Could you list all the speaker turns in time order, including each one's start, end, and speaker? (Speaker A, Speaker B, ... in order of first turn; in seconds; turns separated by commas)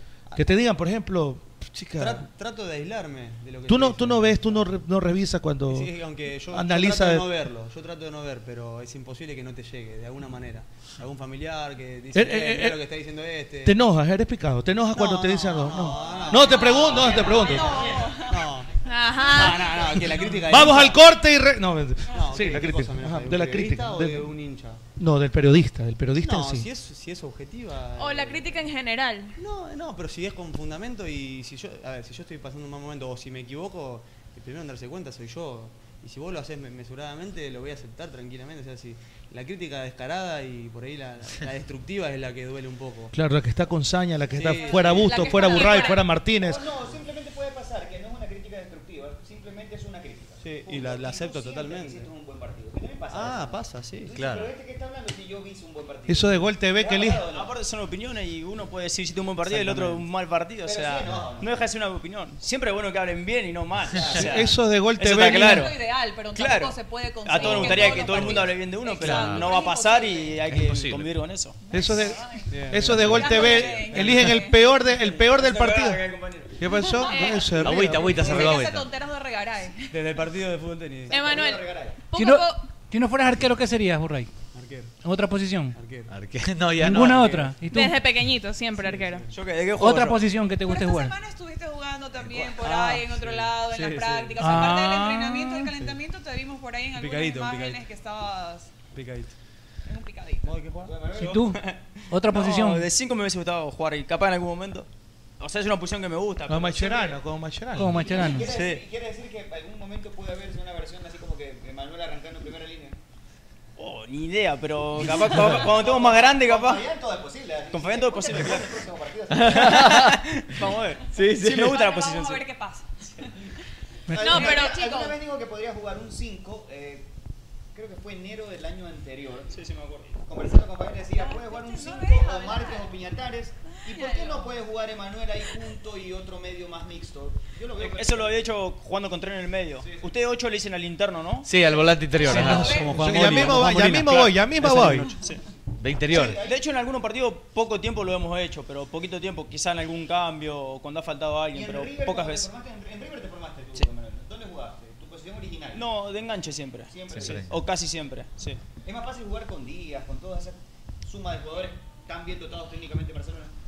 Speaker A: 0.3-2.2, Speaker B: 1.9-4.7, Speaker A: 3.7-5.9, Speaker B: 5.7-13.8, Speaker A: 6.5-7.3, Speaker A: 12.1-12.8, Speaker A: 13.6-17.7, Speaker B: 14.9-21.0, Speaker C: 16.1-18.4, Speaker D: 18.8-20.2, Speaker A: 20.4-24.3, Speaker B: 22.1-24.8, Speaker A: 25.0-26.7, Speaker B: 26.1-28.6, Speaker D: 27.9-29.3, Speaker B: 29.4-43.1, Speaker A: 43.1-46.6, Speaker B: 44.3-45.5, Speaker C: 44.5-46.0, Speaker D: 45.3-45.9, Speaker E: 46.3-57.5, Speaker B: 50.4-52.1, Speaker B: 53.1-54.1, Speaker F: 54.1-54.5, Speaker A: 56.1-57.2, Speaker G: 57.2-65.8, Speaker B: 59.4-60.0, Speaker E: 60.6-61.5, Speaker E: 63.9-64.4, Speaker A: 64.2-65.7, Speaker C: 65.1-70.4, Speaker G: 66.3-71.6, Speaker B: 67.4-68.5, Speaker F: 69.0-69.6, Speaker F: 70.4-71.1, Speaker C: 71.7-74.6, Speaker A: 71.7-72.2, Speaker B: 72.5-74.4, Speaker A: 72.7-76.0, Speaker G: 73.2-73.9, Speaker G: 74.9-76.7, Speaker A: 76.6-78.0, Speaker C: 77.0-79.9, Speaker B: 77.5-78.6, Speaker F: 77.5-78.9, Speaker B: 79.9-81.2, Speaker E: 81.1-82.0, Speaker D: 81.1-82.4, Speaker H: 82.1-84.3, Speaker B: 84.5-84.9, Speaker H: 85.0-85.8, Speaker B: 85.7-86.1, Speaker F: 86.1-87.3, Speaker H: 86.8-88.0, Speaker B: 86.9-87.5, Speaker D: 87.6-89.3, Speaker B: 88.8-89.3, Speaker G: 89.3-90.2, Speaker H: 89.8-91.1, Speaker C: 90.6-98.7, Speaker B: 92.3-94.8, Speaker H: 94.4-95.7, Speaker B: 95.7-96.0, Speaker B: 96.9-97.8, Speaker B: 98.9-99.3, Speaker C: 99.9-100.5, Speaker B: 100.4-100.9, Speaker E: 100.8-101.5, Speaker H: 101.2-101.6, Speaker G: 101.3-104.9, Speaker H: 102.1-102.8, Speaker G: 105.4-107.2, Speaker A: 106.5-108.0, Speaker H: 107.7-108.5, Speaker E: 108.0-113.0, Speaker B: 108.4-108.8, Speaker G: 113.8-116.8, Speaker E: 115.0-120.0, Speaker G: 117.7-118.8, Speaker G: 119.3-122.4, Speaker F: 121.1-121.6, Speaker C: 121.6-122.9, Speaker D: 124.1-124.9, Speaker E: 124.1-127.1, Speaker C: 124.3-125.1, Speaker E: 127.7-129.5, Speaker G: 129.5-130.2, Speaker E: 130.3-138.4, Speaker C: 131.1-132.9, Speaker C: 133.9-134.4, Speaker G: 137.8-141.5, Speaker F: 141.4-142.9, Speaker C: 142.1-143.5, Speaker B: 142.2-145.2, Speaker A: 142.9-145.1, Speaker F: 145.8-146.4, Speaker E: 146.0-146.6, Speaker G: 146.3-152.5, Speaker E: 151.5-155.8, Speaker G: 155.7-158.6, Speaker E: 156.9-157.5, Speaker F: 157.1-157.5, Speaker E: 158.8-163.5